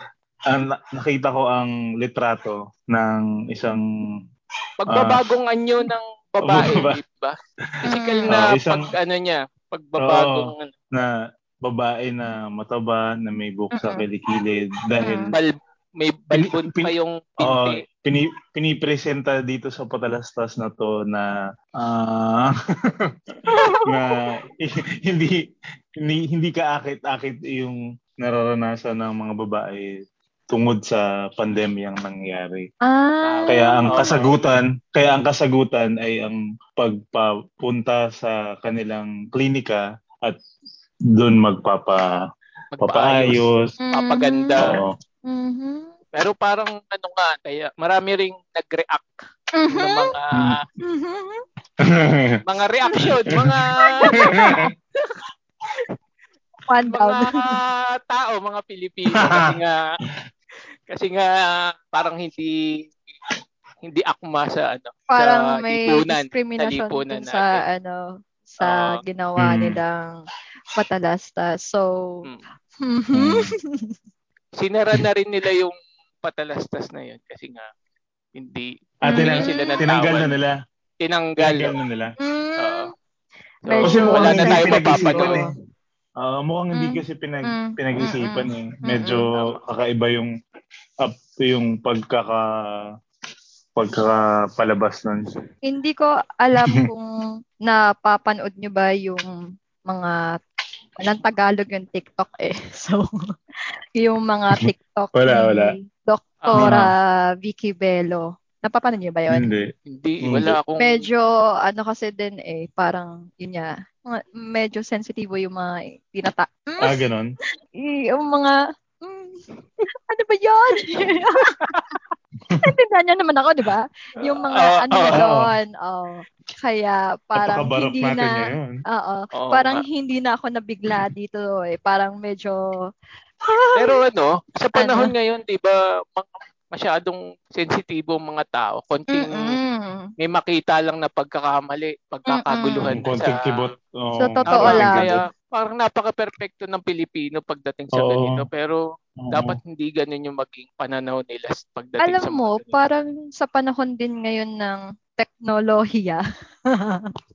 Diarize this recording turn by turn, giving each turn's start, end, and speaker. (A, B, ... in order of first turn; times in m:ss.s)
0:00.5-0:03.8 A
0:04.8-0:10.7 B
0:04.9-0:05.2 A
0:06.4-0:07.0 A
0:07.9-0:08.3 C
0:08.3-0:08.9 A
0:10.0-0:11.1 A
0:11.6-0:15.3 A
0:13.7-0:14.0 C
0:15.0-0:15.3 C
0:15.3-0:17.8 B
0:16.3-0:23.3 A
0:23.5-0:23.9 C
0:23.8-0:25.3 A
0:26.0-0:30.0 A
0:30.5-0:32.6 A
0:32.8-0:34.1 C
0:33.2-0:34.4 B
0:33.5-0:40.4 A
0:41.2-0:42.0 A
0:42.8-0:44.8 B
0:42.8-0:43.7 A
0:43.8-0:44.6 C
0:44.6-0:44.9 A
0:45.3-0:45.9 C
0:46.1-0:49.1 B
0:49.6-0:50.1 C
0:49.7-0:50.6 B
0:50.8-0:51.4 C
0:51.8-0:52.4 A
0:52.4-0:54.3 B
0:53.3-0:54.6 A
0:53.7-0:54.7 C
0:55.0-0:55.9 B
0:56.7-0:57.6 C
0:56.9-0:59.8 B
0:59.2-0:59.5 A
1:00.9-1:02.9 B
1:03.8-1:07.6 B
1:05.1-1:10.2 C
1:08.6-1:09.0 B
1:09.4-1:09.8 A
1:10.7-1:12.2 C
1:12.8-1:13.9 C
1:13.1-1:13.5 A
1:14.6-1:17.7 B
1:18.4-1:20.4 B
1:19.0-1:20.5 A
1:19.1-1:19.8 C
1:21.0-1:21.7 B
1:21.4-1:22.1 A
1:22.2-1:22.9 C
1:22.6-1:22.9 B
1:23.6-1:25.4 B
1:23.7-1:25.5 C
1:23.8-1:25.4 A
1:26.2-1:30.3 A
1:26.7-1:29.2 C
1:29.3-1:29.6 B
1:31.0-1:32.4 A
1:33.8-1:35.3 A
1:35.6-1:37.0 C
1:37.6-1:39.3 C
1:39.9-1:40.4 C
1:41.0-1:43.0 C
1:44.0-1:49.5 C
1:44.6-1:45.7 A
1:46.4-1:46.8 B
1:46.6-1:46.9 A
1:49.3-1:49.7 A
1:49.9-1:51.1 B
1:50.2-1:50.6 A
1:50.8-1:57.0 C
1:56.8-1:57.3 A
1:57.8-1:59.4 C
2:00.1-2:01.7 C
2:02.6-2:12.7 C
2:04.5-2:05.2 B
2:05.1-2:05.5 A
2:07.4-2:08.8 A
2:09.4-2:09.8 B
2:13.4-2:14.0 C
2:13.8-2:19.6 B
2:14.8-2:15.1 C
2:19.1-2:20.1 C
2:20.2-2:23.7 B
2:22.3-2:22.9 C
2:22.9-2:25.2 A
2:24.2-2:25.1 C
2:24.5-2:28.8 B
2:28.0-2:28.4 A
2:29.2-2:29.6 A
2:29.3-2:32.8 B
2:32.0-2:37.1 C